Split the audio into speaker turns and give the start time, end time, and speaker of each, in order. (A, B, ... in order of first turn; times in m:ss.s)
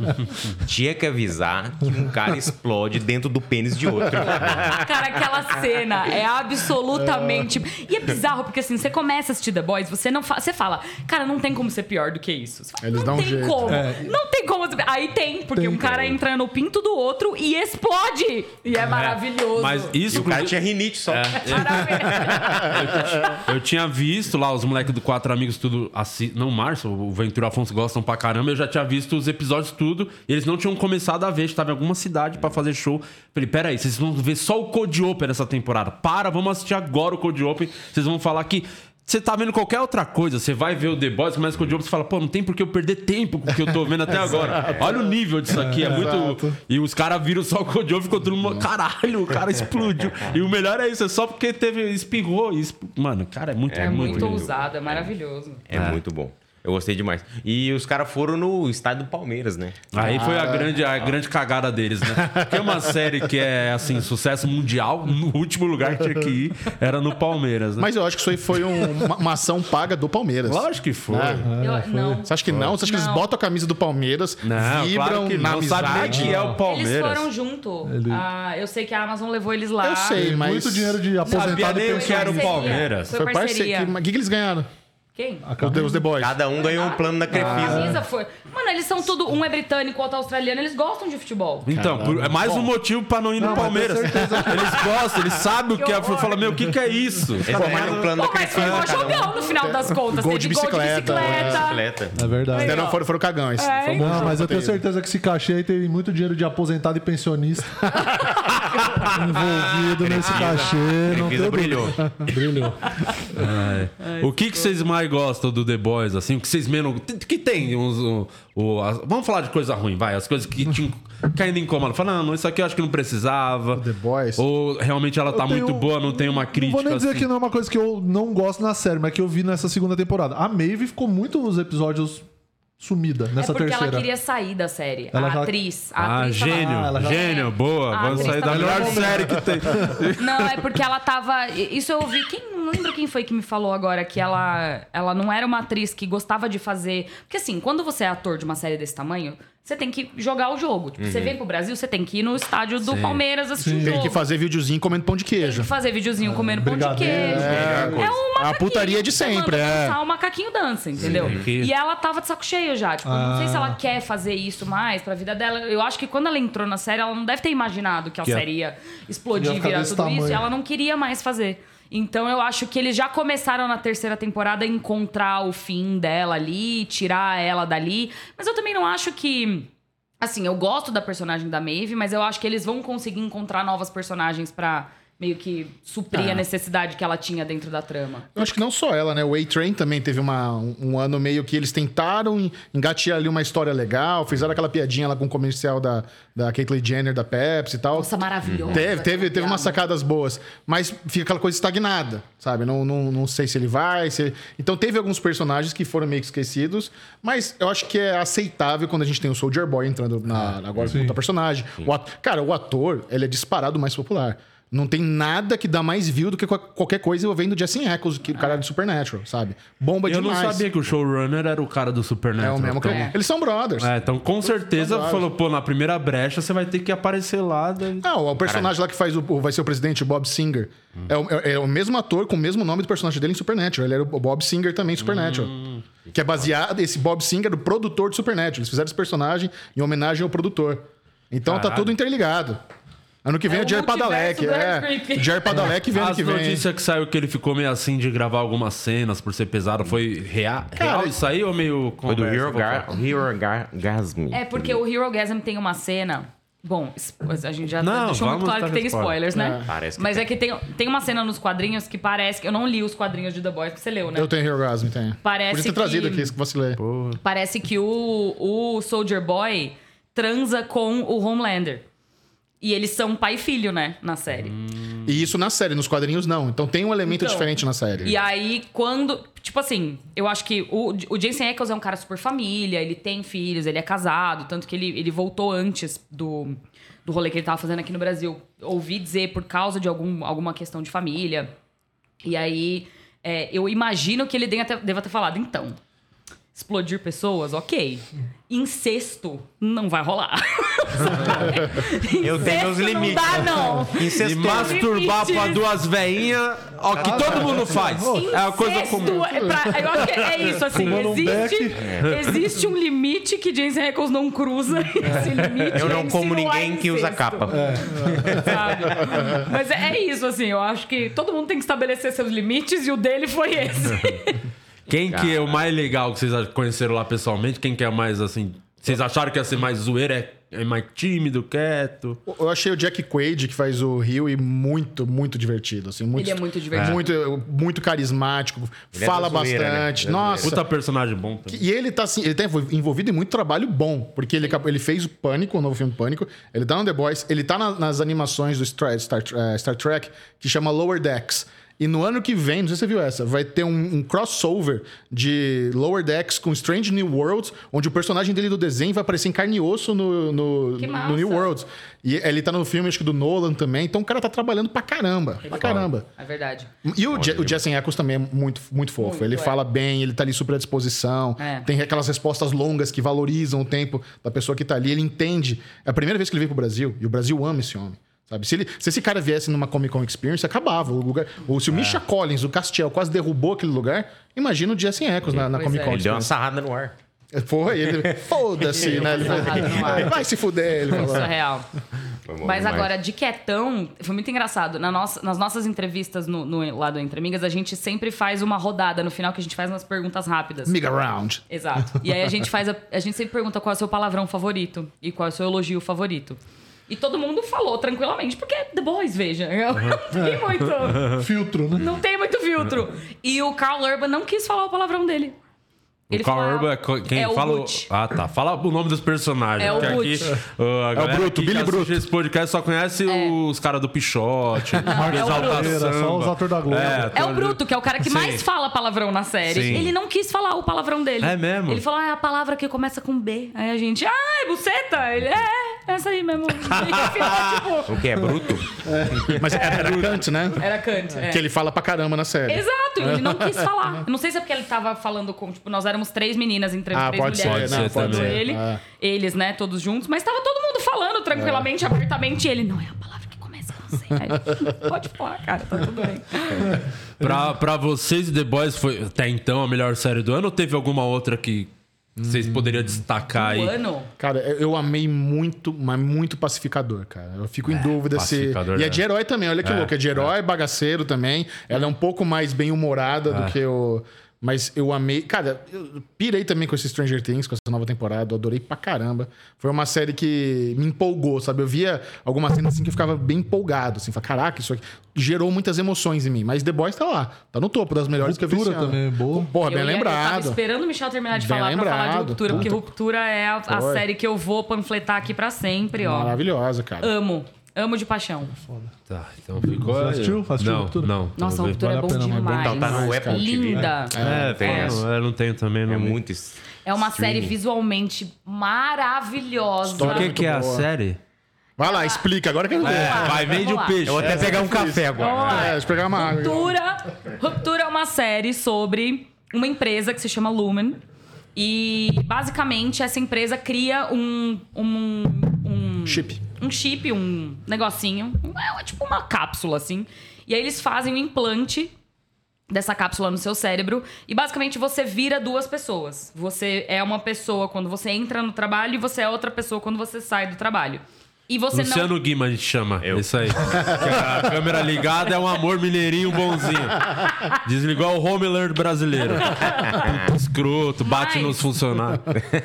0:00.5-0:04.9 A
0:04.7-0:20.0 B
0:12.8-0:13.8 C
0:13.7-0:14.2 D
0:15.5-0:15.9 D
0:18.8-0:20.6 E
0:20.1-0:22.9 A
0:21.1-0:54.4 E
0:21.3-0:23.4 B
0:22.8-0:23.4 C
0:44.1-0:45.0 C
0:44.5-0:44.8 A
0:45.5-0:46.1 D
0:45.8-0:46.5 C
0:53.7-0:55.1 A
0:53.8-0:55.6 B
0:55.7-0:59.9 A
0:59.9-1:07.9 E
1:00.0-1:00.8 C
1:02.1-1:02.8 C
1:07.8-1:11.5 C
1:10.4-1:11.5 E
1:11.4-1:12.3 D
1:11.6-1:13.3 B
1:12.3-1:16.4 C
1:12.5-1:12.8 E
1:14.4-1:17.3 E
1:16.0-1:16.6 D
1:16.6-1:20.2 B
1:17.8-1:18.2 D
1:19.8-1:21.0 C
1:20.2-1:22.8 D
1:21.2-1:23.1 E
1:21.3-1:23.9 B
1:23.1-1:24.7 C
1:25.2-1:25.4 B
1:25.4-1:26.1 D
1:25.6-1:26.4 C
1:26.2-1:28.0 A
1:26.5-1:31.7 B
1:27.6-1:28.0 D
1:31.7-1:37.8 E
1:31.7-1:32.7 C
1:33.4-1:34.9 D
1:35.8-1:36.6 B
1:37.4-1:39.4 A
1:37.5-1:38.2 C
1:37.8-1:41.8 B
1:39.5-1:41.7 C
1:41.0-1:42.2 A
1:42.2-1:42.9 D
1:42.5-1:43.0 B
1:42.6-1:44.8 C
1:43.6-1:44.4 B
1:44.0-1:48.0 D
1:48.0-1:48.4 C
1:49.0-1:53.4 D
1:50.0-1:52.0 A
1:50.2-1:50.7 E
1:52.9-1:53.2 B
1:53.3-2:07.3 E
1:54.0-1:54.7 B
2:03.8-2:04.4 C
2:05.3-2:12.3 D
2:12.8-2:14.1 D
2:13.4-2:19.3 B
2:15.1-2:15.6 D
2:16.0-2:20.7 E
2:16.5-2:17.4 D
2:18.0-2:20.0 D
2:20.2-2:34.2 B
2:31.0-2:31.4 A
2:32.8-2:33.2 E
2:33.6-2:34.1 D
2:33.8-2:35.7 C
2:35.4-2:59.7 B
2:36.2-2:38.0 D
2:37.1-2:40.0 C
2:37.3-2:38.2 A
2:41.0-2:41.5 A
2:41.0-2:41.7 E
2:43.0-2:43.8 D
2:49.4-2:50.5 D
3:00.2-3:08.5 B
3:06.1-3:06.4 C
3:08.4-3:18.1 C
3:17.9-3:19.8 B
3:18.5-3:18.8 A
3:18.7-3:40.7 C
3:30.9-3:31.2 D
3:38.4-3:38.6 B
3:40.0-3:43.1 E
3:42.4-3:43.9 C
3:42.8-3:43.2 B
3:43.8-3:48.1 E
3:44.4-3:45.3 C
3:48.0-3:55.6 C
3:48.4-3:48.7 A
3:55.0-3:55.8 E
3:56.1-4:02.6 C
4:01.4-4:01.9 E
4:03.2-4:06.6 C
4:03.5-4:05.5 B
4:05.9-4:13.0 E
4:10.8-4:11.2 C
4:12.1-4:14.8 A
4:14.3-4:24.3 B
4:17.8-4:19.2 E
4:19.3-4:19.7 C
4:19.6-4:20.3 A
4:24.2-4:26.8 C
4:25.2-4:26.3 B
4:26.8-4:27.2 E
4:27.2-4:31.8 B
4:32.6-4:34.5 B
4:34.5-4:35.1 E
4:35.1-4:38.2 C
4:37.1-4:51.5 B
4:52.2-4:55.8 B
4:56.5-5:05.7 B
5:02.2-5:04.8 A
5:04.2-5:09.3 E
5:06.9-5:08.4 D
5:08.0-5:24.4 B
5:09.4-5:12.0 D
5:15.7-5:19.2 A
5:17.5-5:18.5 D
5:24.9-5:32.2 E
5:25.1-5:25.6 A
5:32.3-5:40.6 C
5:36.1-5:37.1 B
5:36.7-5:37.0 E
5:38.9-5:40.6 A
5:40.4-5:41.6 E
5:41.5-6:06.0 C
6:00.8-6:01.5 B
6:05.4-6:06.7 B
6:05.6-6:05.9 A
6:06.8-6:26.3 C
6:07.1-6:07.6 A
6:09.0-6:09.6 B
6:11.4-6:11.7 B
6:25.3-6:26.9 A
6:25.5-6:26.0 B
6:27.3-6:31.3 C
6:28.7-6:30.2 B
6:28.8-6:30.1 A
6:30.9-6:31.7 B
6:32.3-6:32.9 A
6:32.4-6:40.8 B
6:40.7-6:42.0 C
6:41.5-6:51.1 B
6:50.1-6:51.9 D
6:50.9-6:51.2 E
6:51.8-6:55.4 B
6:56.1-6:57.9 B
6:56.1-7:08.4 E
6:59.6-7:00.4 B
7:01.0-7:02.0 C
7:03.1-7:03.4 B
7:04.8-7:05.8 B
7:04.8-7:07.2 D
7:07.1-7:18.0 B
7:09.5-7:09.9 E
7:11.2-7:11.8 E
7:16.8-7:17.4 E
7:17.9-7:19.3 A
7:19.2-7:20.2 E
7:19.3-7:23.7 C
7:20.6-7:21.4 B
7:22.5-7:36.8 B
7:26.9-7:28.8 C
7:27.4-7:28.5 E
7:37.2-7:43.7 E
7:42.2-7:42.9 C
7:43.3-7:44.1 B
7:44.2-8:10.6 C
7:47.7-7:49.0 E
7:49.6-7:50.3 E
7:53.3-7:53.6 E
8:08.2-8:09.5 D
8:09.6-8:16.4 B
8:11.3-8:12.8 C
8:13.7-8:14.0 C
8:16.0-8:17.1 C
8:17.0-8:18.6 B
8:18.6-8:18.9 D
8:19.1-8:21.8 E
8:19.6-8:21.2 D
8:21.4-8:25.0 B
8:21.7-8:22.8 D
8:22.5-8:24.9 C
8:22.5-8:25.1 A
8:24.2-8:26.2 E
8:25.9-8:27.5 A
8:26.8-8:30.4 B
8:29.8-8:30.9 C
8:30.0-8:31.2 E
8:31.8-8:33.6 C
8:31.8-8:34.1 B
8:32.8-8:35.7 E
8:34.0-8:35.6 A
8:34.2-8:36.7 C
8:35.1-8:41.0 B
8:41.6-8:51.9 B
8:46.1-8:46.4 C
8:52.7-9:02.2 B
9:01.7-9:12.4 E
9:03.0-9:04.3 A
9:09.4-9:10.0 B
9:10.0-9:10.3 A
9:11.0-9:11.6 B